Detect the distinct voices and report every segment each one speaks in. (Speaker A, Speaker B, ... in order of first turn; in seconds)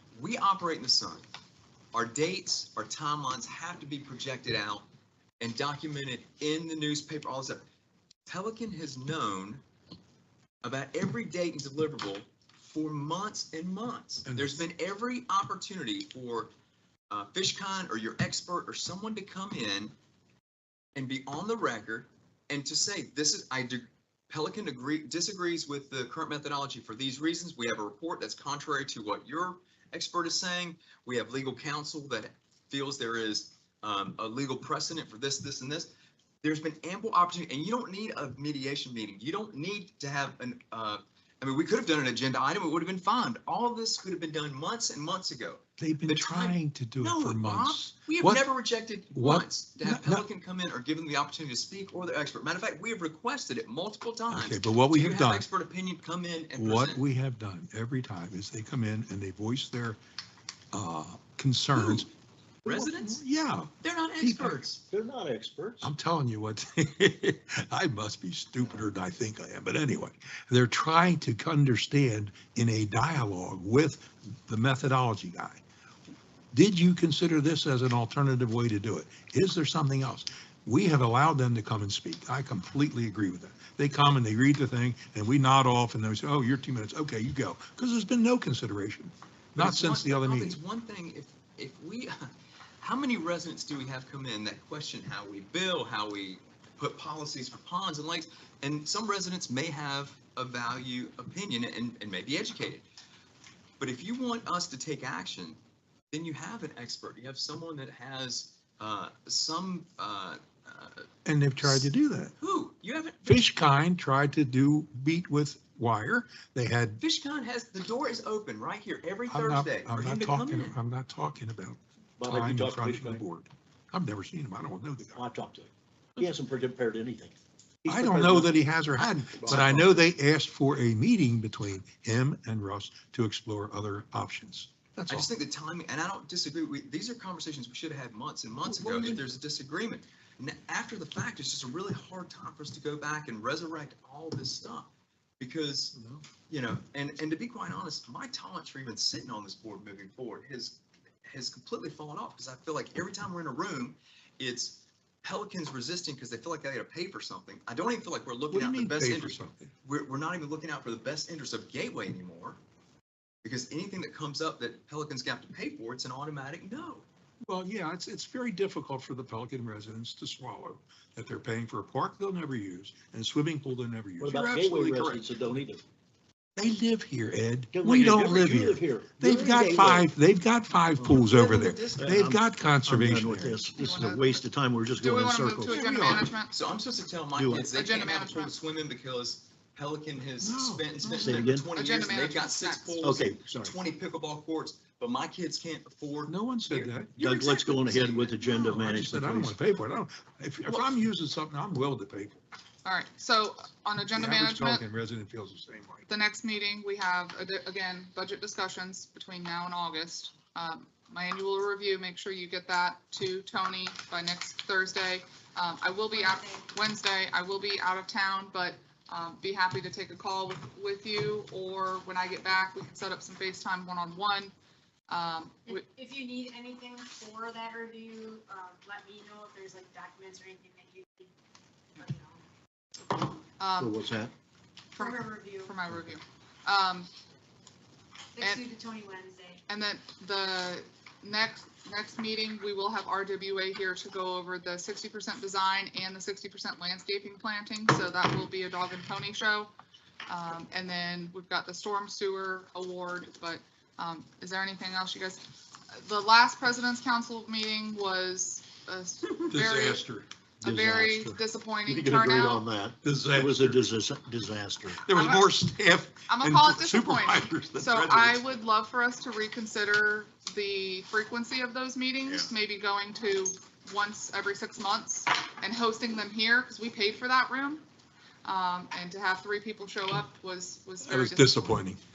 Speaker A: 0.1-1.2, 1.9-4.8, 5.4-7.6, 8.3-9.6, 10.6-16.5, 17.1-19.9, 20.9-35.9, 36.4-57.0, 61.7-62.0, 62.6-63.2, 63.8-64.8, 89.5-102.8, 103.8-105.6, 106.1-111.1, 112.4-113.6, 117.0-120.8, 135.1-145.9, 146.5-162.6, 163.4-167.1, 174.5-175.0, 181.0-182.1, 186.5-198.4
Speaker B: 14.2-14.7, 45.8-48.5, 49.1-50.2, 54.3-55.5, 56.5-60.0, 60.7-62.1, 62.6-64.6, 65.8-75.6, 76.5-90.6, 111.2-112.3, 113.2-117.0, 119.3-125.2, 127.9-135.3, 138.6-139.2, 145.9-146.2, 158.5-159.7, 167.4-175.2, 176.6-183.6, 185.7-186.3, 190.4-191.5, 196.3-197.1, 198.4-202.4, 204.1-206.1, 259.5-260.3, 263.0-263.9, 265.0-268.4, 281.0-282.0
Speaker C: 64.9-65.9, 122.2-123.2, 125.1-128.5, 129.3-130.0, 174.2-175.8, 177.7-180.1, 181.9-185.8, 187.3-187.7, 191.1-191.7, 193.0-193.8, 197.2-199.6, 233.8-234.3, 260.6-265.1
Speaker D: 183.6-184.4, 185.0-186.5, 187.6-188.5, 191.7-193.1, 202.8-204.8, 206.1-224.5, 225.1-225.9, 233.6-234.0, 234.9-237.1, 238.4-238.7, 239.7-249.7, 250.3-260.1, 260.6-262.6, 265.1-265.6, 266.3-277.8, 278.4-281.8
Speaker E: 216.1-216.7, 225.7-231.3, 231.9-232.4, 235.0-235.8, 238.3-239.6